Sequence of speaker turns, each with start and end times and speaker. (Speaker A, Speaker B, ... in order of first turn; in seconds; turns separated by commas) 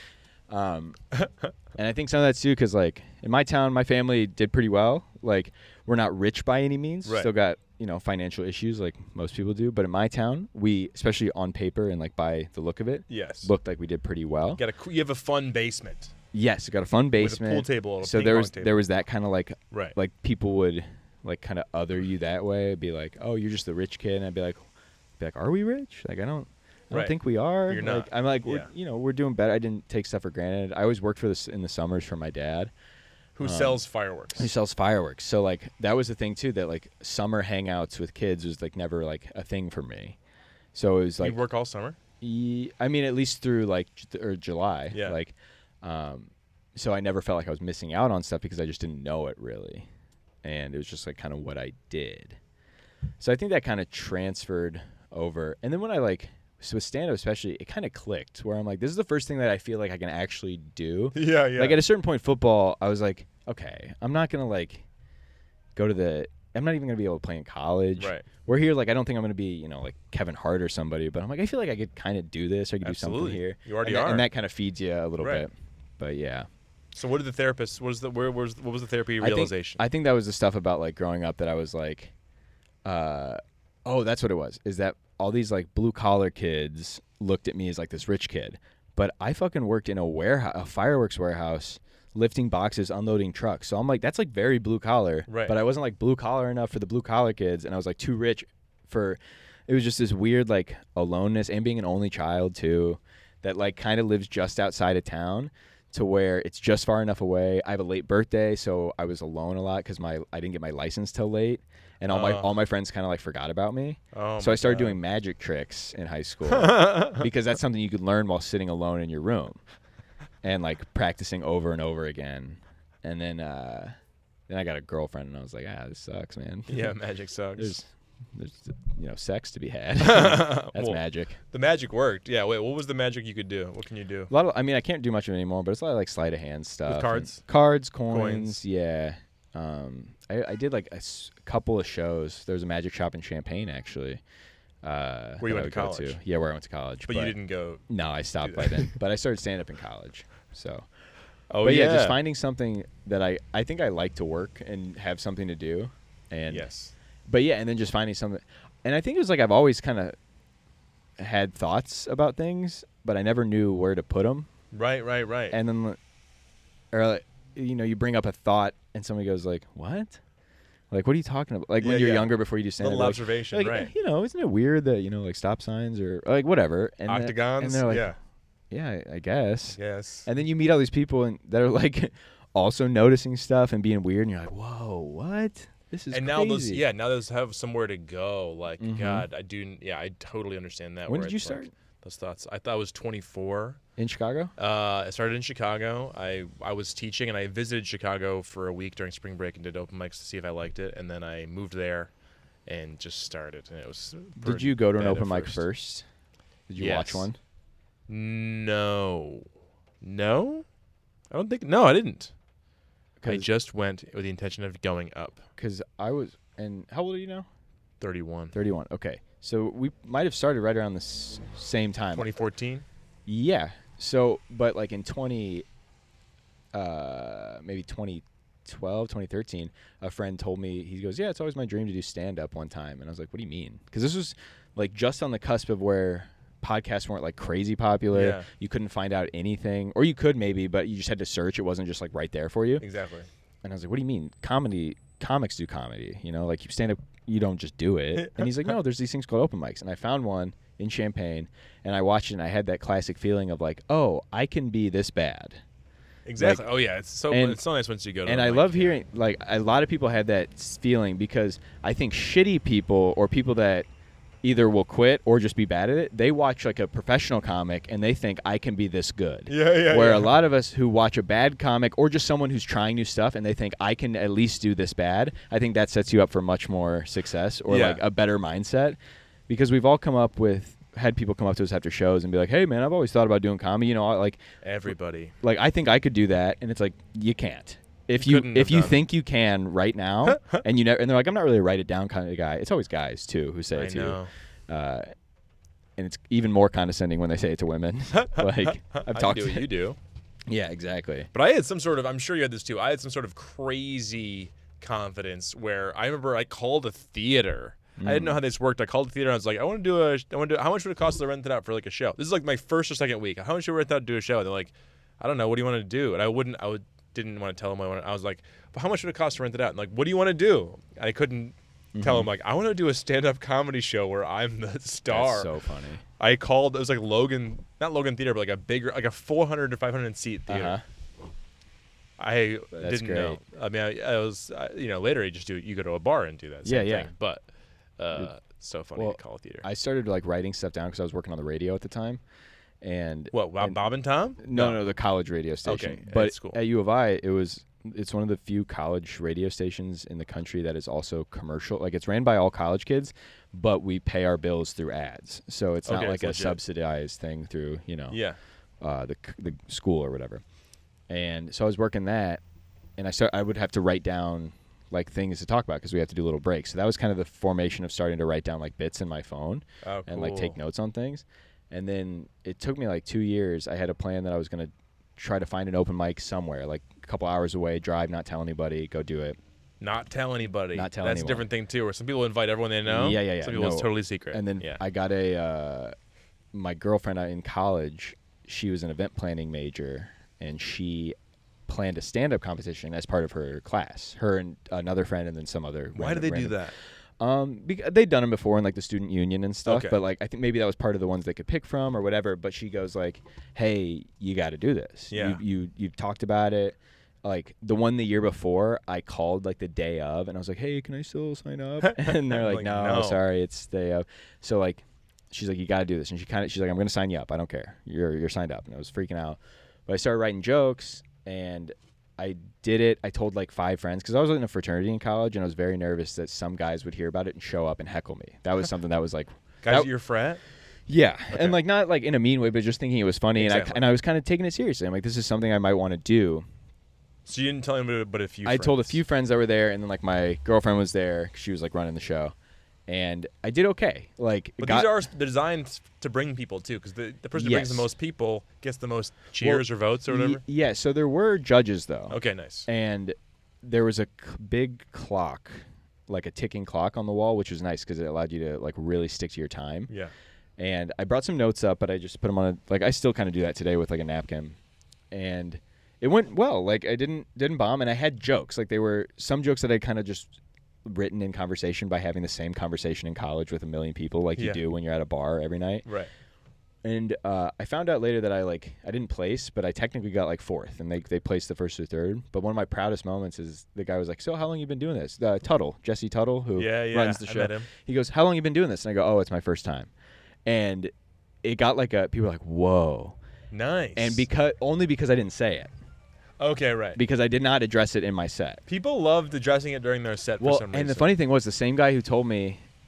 Speaker A: 0.5-1.0, Speaker A: 1.8-14.6, Speaker B: 7.0-7.3, Speaker B: 13.1-13.5, Speaker B: 14.6-16.1, Speaker A: 16.3-24.6, Speaker B: 17.2-18.8, Speaker B: 19.7-19.9, Speaker A: 25.2-32.7, Speaker B: 26.9-28.7, Speaker B: 33.4-34.5, Speaker A: 33.4-33.8, Speaker A: 34.4-40.2, Speaker A: 40.7-41.4, Speaker B: 41.2-42.0, Speaker A: 42.2-49.9, Speaker B: 44.9-45.2, Speaker A: 50.4-52.4, Speaker A: 53.2-64.8, Speaker B: 61.1-61.8, Speaker A: 65.7-76.5, Speaker B: 68.0-68.2, Speaker B: 72.8-74.3, Speaker B: 75.2-75.5, Speaker B: 76.9-79.8, Speaker A: 79.2-82.1, Speaker A: 82.8-119.6, Speaker B: 95.3-95.6, Speaker B: 112.1-112.5, Speaker B: 114.1-115.0, Speaker B: 116.5-117.2, Speaker A: 120.4-123.9, Speaker A: 124.5-126.9, Speaker B: 126.7-127.8, Speaker A: 127.6-131.4, Speaker B: 130.0-134.3, Speaker A: 134.3-144.2, Speaker B: 136.9-137.4, Speaker B: 138.1-138.6, Speaker A: 144.8-147.3, Speaker B: 145.4-146.2, Speaker B: 147.1-147.8, Speaker A: 147.9-150.9, Speaker B: 148.4-148.9, Speaker B: 151.5-152.2, Speaker A: 151.6-156.7, Speaker B: 156.5-156.9, Speaker A: 157.3-160.1, Speaker A: 161.2-164.5, Speaker B: 164.7-165.6, Speaker A: 165.5-166.0, Speaker A: 166.9-170.2, Speaker A: 170.9-178.1, Speaker B: 171.8-173.9, Speaker B: 177.1-178.2, Speaker A: 178.7-186.8, Speaker B: 179.7-180.3, Speaker B: 186.1-193.8, Speaker A: 188.8-189.3, Speaker A: 191.1-191.7, Speaker A: 194.0-194.5, Speaker B: 194.6-202.1, Speaker B: 202.7-205.6, Speaker A: 204.4-206.1, Speaker A: 206.7-207.4, Speaker B: 206.8-207.3, Speaker B: 208.1-209.5, Speaker B: 210.0-210.7, Speaker B: 211.3-212.3, Speaker A: 213.2-213.5, Speaker B: 213.2-215.4, Speaker A: 215.6-217.5, Speaker B: 218.0-218.6, Speaker A: 218.5-222.3, Speaker B: 222.1-222.8, Speaker A: 223.3-225.7, Speaker A: 226.7-242.8, Speaker B: 238.1-238.5, Speaker B: 242.8-243.3, Speaker A: 243.6-255.6, Speaker B: 248.1-248.5, Speaker B: 256.2-259.0, Speaker A: 256.4-256.6, Speaker A: 257.3-257.6, Speaker A: 258.2-263.9, Speaker A: 264.4-279.0, Speaker B: 269.5-270.4, Speaker B: 277.7-278.0, Speaker A: 279.5-284.9, Speaker B: 284.6-285.3, Speaker A: 285.4-295.1, Speaker B: 288.1-289.0, Speaker B: 290.3-290.6, Speaker B: 293.7-294.3, Speaker A: 296.0-299.7, Speaker B: 298.1-300.0, Speaker A: 300.5-301.3, Speaker B: 301.3-325.5, Speaker A: 308.0-308.4, Speaker A: 321.9-322.3, Speaker A: 325.1-326.0, Speaker B: 326.2-330.8, Speaker A: 330.5-330.8, Speaker B: 332.2-337.4, Speaker A: 332.7-333.4, Speaker A: 336.6-337.1, Speaker B: 338.0-339.6, Speaker A: 338.9-342.2, Speaker A: 342.8-343.8, Speaker B: 343.3-344.8, Speaker A: 344.4-358.2, Speaker B: 345.6-346.6, Speaker B: 355.9-356.6, Speaker B: 358.1-358.4, Speaker A: 358.8-360.4, Speaker A: 361.1-362.4, Speaker A: 363.0-379.4, Speaker B: 369.8-370.6, Speaker B: 379.8-384.8, Speaker A: 380.7-381.4, Speaker A: 382.8-385.9, Speaker A: 386.5-391.1, Speaker A: 391.7-396.7, Speaker B: 395.9-396.7, Speaker A: 397.2-429.9, Speaker B: 399.6-400.0, Speaker B: 405.1-405.4, Speaker B: 411.8-413.2, Speaker B: 429.6-430.4, Speaker A: 430.9-436.4, Speaker B: 431.3-431.6, Speaker B: 433.4-433.9, Speaker B: 437.2-439.0, Speaker A: 438.4-442.3, Speaker A: 442.9-444.9, Speaker B: 444.6-450.4, Speaker A: 447.3-447.9, Speaker A: 449.4-459.9, Speaker B: 452.1-452.7, Speaker A: 460.6-464.6, Speaker A: 465.1-470.3, Speaker A: 470.8-475.9, Speaker B: 475.8-476.1, Speaker A: 476.8-489.9, Speaker B: 486.6-487.7, Speaker A: 490.4-490.9, Speaker A: 491.4-493.2, Speaker B: 493.5-494.2, Speaker A: 493.9-495.7, Speaker B: 496.4-497.0, Speaker A: 496.9-498.6, Speaker B: 498.7-501.1, Speaker A: 500.4-502.6